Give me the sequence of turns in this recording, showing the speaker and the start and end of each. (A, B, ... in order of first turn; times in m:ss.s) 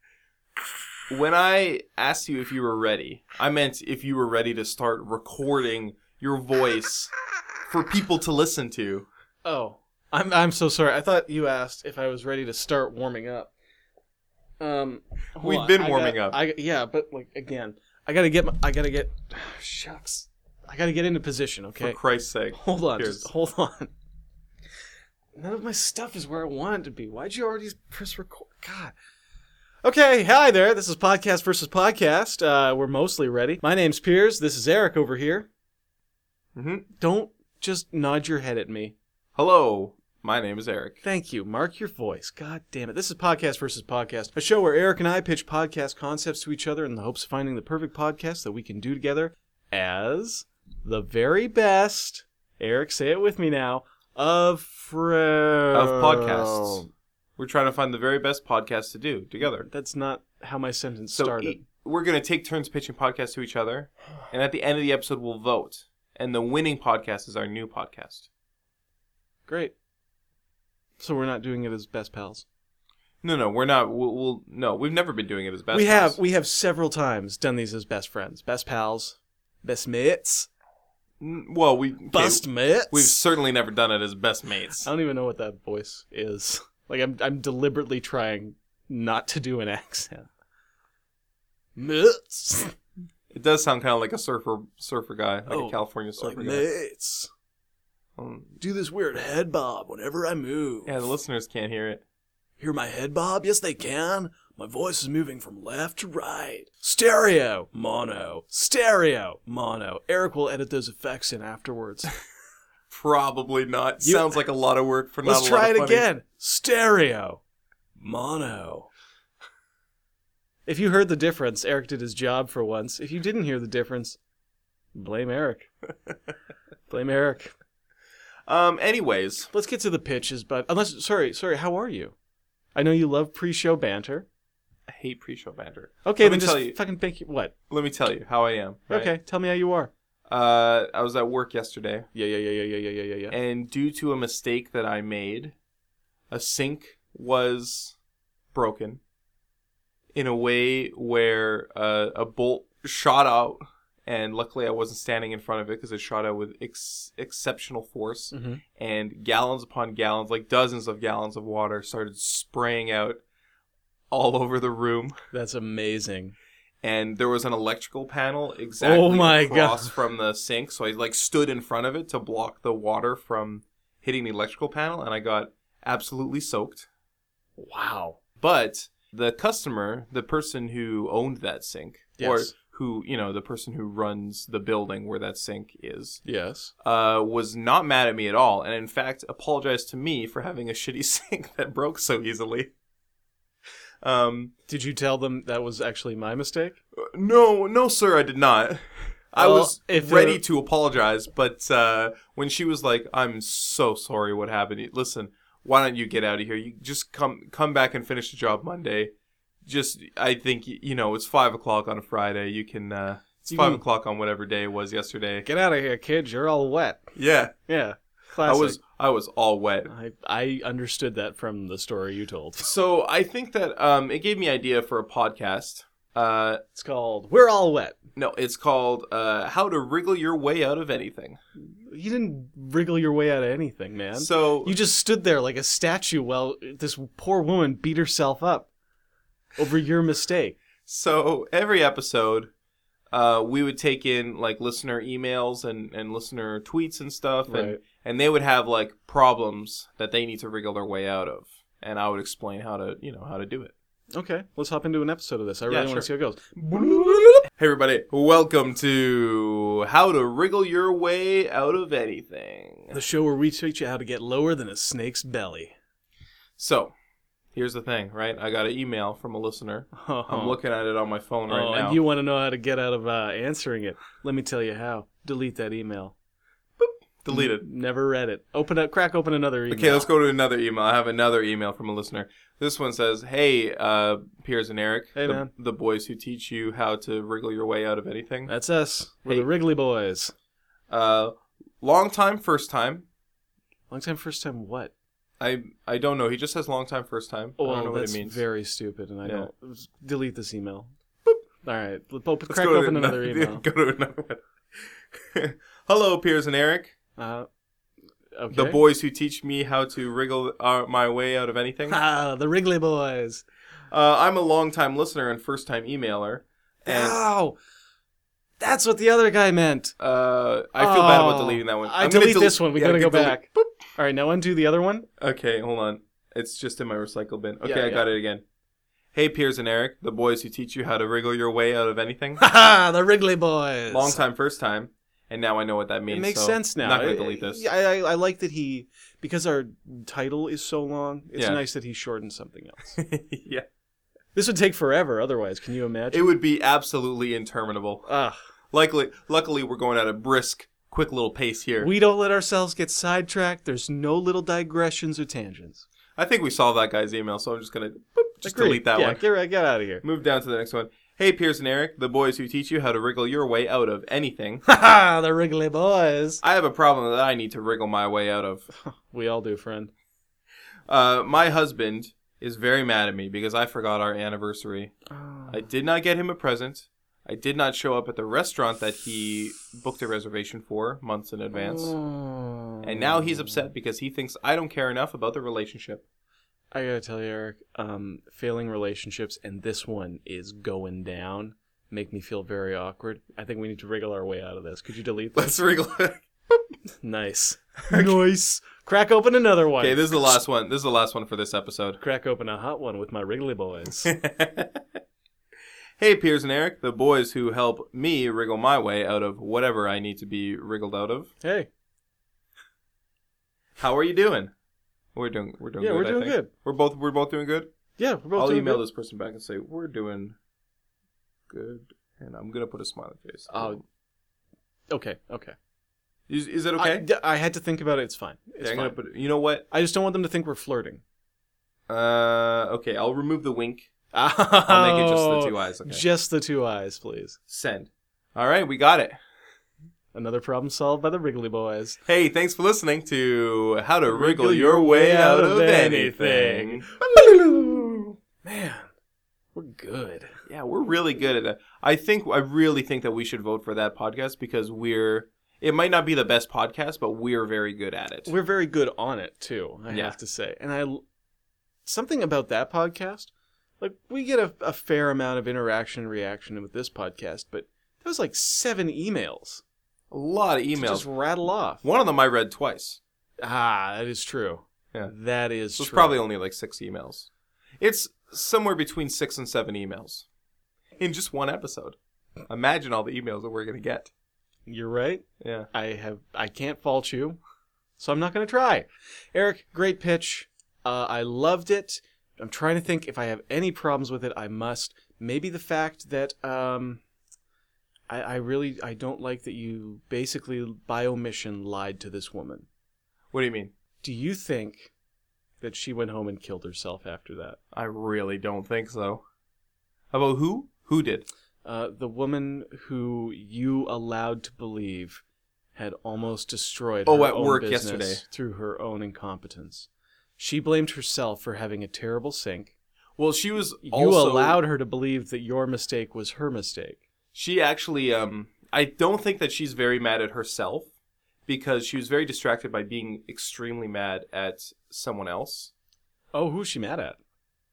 0:01.1-0:07.1 A
0:07.7-0:09.1 A
0:09.4-0:13.5 B
0:14.6-0:22.0 B
0:15.4-0:16.4 A
0:21.8-0:23.3 A
0:22.5-0:23.9 B
0:25.3-0:28.9 B
0:29.8-0:35.5 B
0:36.5-0:36.8 A
0:37.0-0:39.0 B
0:39.3-0:41.0 A
0:41.0-0:56.9 B
0:55.7-0:56.8 A
0:57.4-0:59.7 A
0:59.4-1:01.6 B
1:01.2-1:08.3 A
1:09.5-1:09.7 B
1:11.0-1:12.4 B
1:13.2-1:16.2 A
1:15.7-1:20.5 B
1:21.2-1:24.9 A
1:22.1-1:23.2 B
1:24.8-1:30.3 B
1:31.8-1:32.7 B
1:33.3-1:36.7 A
1:35.5-1:37.3 B
1:38.2-1:38.5 A
1:38.6-1:41.0 B
1:40.8-1:42.0 A
1:42.6-1:52.1 B
1:52.9-1:56.0 A
1:54.0-1:54.4 B
1:55.2-1:57.4 B
1:58.0-1:58.9 B
2:00.6-2:04.2 B
2:04.9-2:05.7 B
2:06.9-2:07.5 B
2:08.5-2:09.5 A
2:09.5-2:12.1 B
2:12.7-2:14.3 B
2:14.9-2:16.8 A
2:16.0-2:17.5 B
2:17.7-2:19.1 A
2:18.9-2:19.9 B
2:20.3-2:22.1 A
2:22.1-2:23.4 B
2:23.3-2:25.6 A
2:26.3-2:28.0 A
2:28.5-2:29.0 A
2:30.1-2:43.2 A
2:38.3-2:38.6 B
2:44.1-2:45.1 A
2:45.3-2:46.4 B
2:46.8-2:56.9 A
2:48.8-2:49.9 B
2:57.6-2:58.2 B
2:58.4-3:06.2 A
3:02.2-3:02.5 B
3:06.2-3:06.7 B
3:06.8-3:12.7 A
3:14.0-3:14.5 A
3:14.7-3:16.8 B
3:17.0-3:29.1 A
3:19.4-3:20.4 B
3:29.6-3:35.4 A
3:33.5-3:33.8 B
3:35.4-3:37.1 B
3:37.2-3:37.5 A
3:37.6-3:38.8 B
3:38.4-3:39.9 A
3:39.9-3:42.7 B
3:42.6-3:46.6 A
3:46.7-3:48.0 B
3:48.2-3:51.4 A
3:51.6-3:58.7 B
3:54.1-3:54.8 A
3:59.6-4:00.6 B
4:00.8-4:02.5 A
4:03.1-4:13.7 A
4:07.5-4:07.8 B
4:14.1-4:16.4 B
4:15.7-4:23.0 A
4:22.9-4:25.7 B
4:26.6-4:26.9 A
4:27.5-4:32.0 A
4:29.9-4:30.6 B
4:31.5-4:36.1 B
4:36.8-4:37.6 A
4:37.3-4:40.1 B
4:39.7-4:48.5 A
4:45.1-4:45.5 B
4:48.5-4:50.3 B
4:50.9-4:53.0 A
4:53.9-4:54.9 B
4:55.4-4:58.4 A
4:57.6-5:03.6 B
5:02.5-5:06.9 A
5:07.2-5:07.5 B
5:08.4-5:08.8 B
5:08.5-5:12.0 A
5:11.9-5:13.4 B
5:13.9-5:17.2 A
5:16.8-5:17.6 B
5:18.6-5:19.9 B
5:20.0-5:23.6 A
5:20.8-5:25.1 B
5:25.2-5:28.4 A
5:27.6-5:28.0 B
5:29.1-5:32.4 A
5:32.4-5:34.2 B
5:33.9-5:37.6 A
5:36.1-5:43.0 B
5:41.4-5:41.6 A
5:43.0-5:43.6 A
5:44.3-5:46.3 B
5:46.1-5:48.0 A
5:48.1-5:48.4 B
5:48.7-5:51.9 A
5:51.8-5:55.8 B
5:56.2-5:59.2 A
5:58.4-6:00.0 B
6:00.0-6:04.6 A
6:04.6-6:06.4 B
6:06.4-6:08.7 A
6:08.7-6:09.9 B
6:10.9-6:14.9 A
6:15.1-6:15.6 B
6:15.5-6:22.0 A
6:21.5-6:23.3 B
6:22.8-6:26.0 A
6:26.7-6:35.6 B
6:35.4-6:36.2 A
6:37.0-6:40.4 B
6:37.9-6:38.2 A
6:39.8-6:42.0 A
6:42.0-6:44.1 B
6:44.0-6:45.0 A
6:46.0-6:51.3 A
6:51.4-6:51.7 B
6:53.8-6:54.5 A
6:55.1-6:57.7 A
6:55.8-6:56.5 B
6:58.0-6:58.8 B
6:58.3-7:00.4 A
7:01.5-7:03.8 A
7:03.5-7:03.8 B
7:04.9-7:05.6 B
7:06.3-7:07.0 A
7:06.8-7:09.0 B
7:08.6-7:09.6 A
7:09.7-7:11.0 B
7:11.9-7:13.9 A
7:14.1-7:17.4 B
7:14.7-7:16.0 A
7:17.5-7:19.2 A
7:20.1-7:22.0 B
7:22.0-7:28.0 A
7:24.1-7:28.9 B
7:29.5-7:30.4 B
7:30.5-7:38.3 A
7:38.2-7:41.0 B
7:39.9-7:40.2 A
7:41.8-7:49.6 B
7:50.1-7:51.0 A
7:50.7-7:51.8 B
7:51.8-7:53.0 A
7:53.4-7:56.2 B
7:55.8-7:57.3 A
7:57.8-8:00.2 A
8:01.0-8:02.0 A
8:02.5-8:04.1 A
8:04.6-8:07.4 B
8:05.4-8:05.7 A
8:08.0-8:17.0 B
8:18.1-8:22.7 B
8:23.3-8:23.7 A
8:24.0-8:24.9 B
8:25.6-8:27.6 B
8:27.7-8:29.2 A
8:30.1-8:31.2 A
8:31.6-8:35.2 B
8:35.7-8:42.7 B
8:37.0-8:38.2 A
8:43.2-8:44.6 A
8:43.8-8:47.0 B
8:47.3-8:50.9 A
8:51.5-8:55.7 A
8:56.3-8:57.2 B